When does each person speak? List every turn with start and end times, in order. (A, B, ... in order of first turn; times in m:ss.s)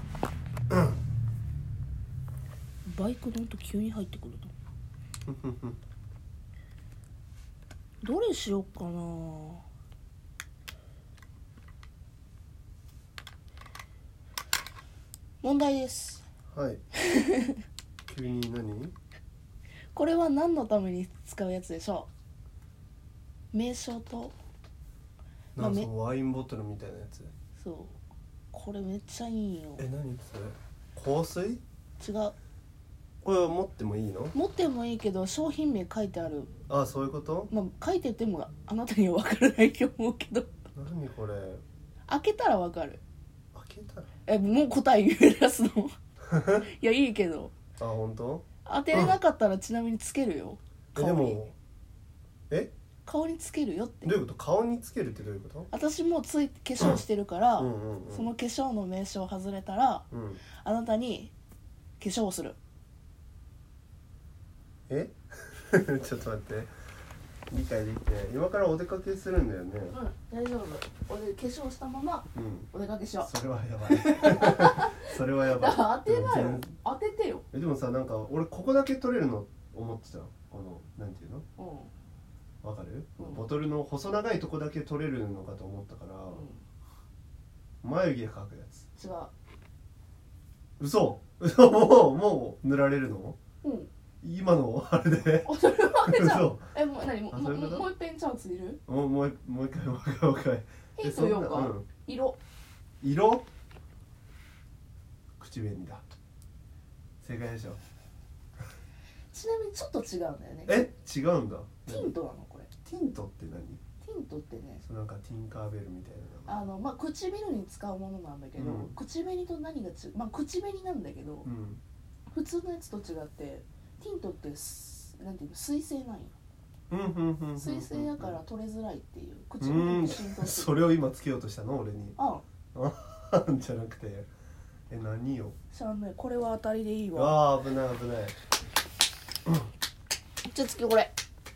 0:02.8-0:04.5 A
0:05.3-0:05.8 B
0:08.0-0:09.6 A
0:15.4-0:16.2 A
0:16.5-0:16.8 B
0:17.0-0:17.6 A
0:18.1-0:18.9 B
0:19.9-0:22.1 A
0:23.5-0:24.4 A
0:25.6-0:25.9 A
0:25.6-0:27.3 B
0:27.6-0:28.0 A
0:28.5-0:29.9 A
0:29.8-0:31.6 B
0:32.0-0:32.3 A
0:33.2-0:34.3 B
0:34.3-0:36.5 A
0:36.7-0:37.5 B
0:37.5-0:40.5 A
0:40.8-0:41.6 B
0:42.1-0:43.0 A
0:43.5-0:44.1 B
0:44.3-0:45.9 A
0:46.3-0:46.6 B
0:46.6-0:47.5 A
0:47.8-0:49.1 B
0:48.6-0:51.4 A
0:51.0-0:51.6 B
0:53.0-0:54.1 A
0:54.0-0:55.7 B
0:55.7-1:01.3 A
0:57.6-0:58.3 B
1:00.1-1:00.4 B
1:02.0-1:02.6 A
1:04.9-1:06.7 B
1:07.5-1:10.0 B
1:09.9-1:13.3 A
1:12.3-1:16.7 B
1:13.8-1:17.4 A
1:17.5-1:21.4 B
1:21.6-1:21.9 A
1:22.6-1:26.4 B
1:23.2-1:23.4 A
1:26.3-1:26.6 A
1:27.8-1:28.8 B
1:29.0-1:29.3 A
1:30.8-1:33.4 B
1:33.6-1:33.9 A
1:34.2-1:36.7 B
1:35.4-1:38.8 A
1:37.3-1:37.9 B
1:38.8-1:41.9 B
1:41.0-1:42.4 A
1:43.0-1:43.4 B
1:45.4-1:46.0 B
1:47.2-1:47.8 B
1:49.3-1:50.8 A
1:50.7-1:52.1 B
1:51.9-1:52.7 A
1:52.8-1:53.8 B
1:54.0-1:54.8 A
1:54.8-1:56.7 B
1:56.5-2:01.5 A
1:58.6-1:58.9 B
2:01.4-2:01.8 B
2:02.3-2:06.3 A
2:06.9-2:08.4 B
2:07.6-2:10.8 A
2:09.6-2:12.2 B
2:12.2-2:12.4 A
2:12.7-2:14.3 B
2:14.9-2:15.6 B
2:15.7-2:17.4 A
2:17.2-2:18.3 B
2:20.4-2:21.1 A